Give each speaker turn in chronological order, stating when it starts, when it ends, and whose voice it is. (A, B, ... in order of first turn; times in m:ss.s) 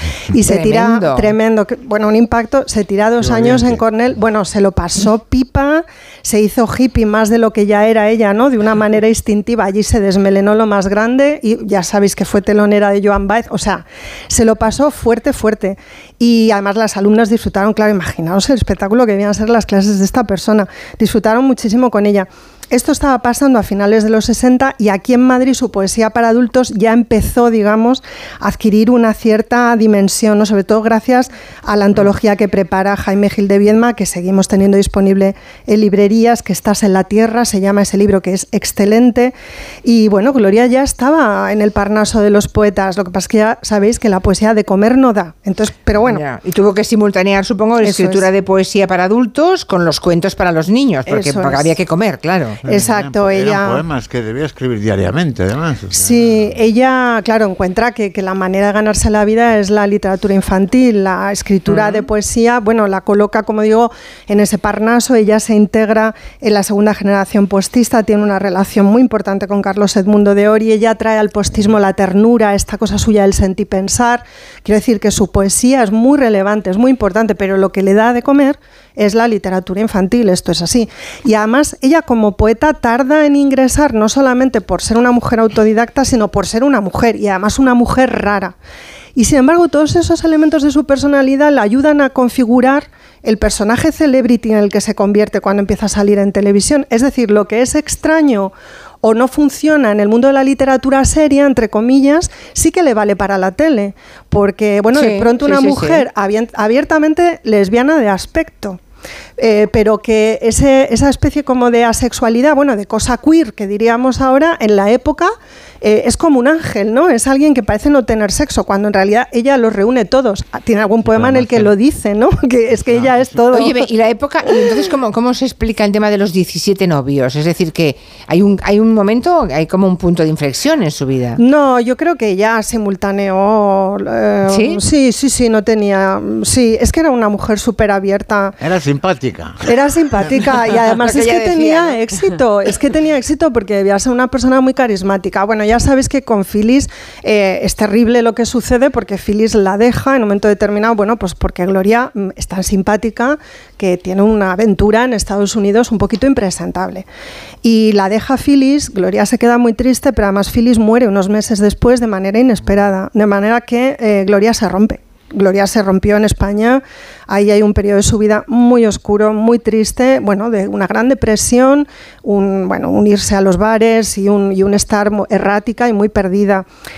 0:00.3-0:39.3 A
0:00.4-0:01.3 B
0:03.2-0:03.8 C
0:39.8-0:46.2 A
0:46.0-0:52.6 B
0:47.8-0:48.2 A
0:51.1-0:51.7 A
0:52.6-0:56.6 C
0:52.6-0:53.8 A
0:55.9-1:28.5 A
1:29.2-1:48.8 A
1:44.9-1:46.0 B
1:49.4-1:55.3 A
1:55.8-2:03.8 A
2:01.0-2:01.7 C
2:02.8-2:03.4 C
2:03.5-2:11.4 B
2:11.4-2:18.5 A
2:14.5-2:14.8 B
2:18.6-2:19.6 C
2:19.6-2:37.0 A
2:20.9-2:22.0 B
2:37.6-2:56.6 A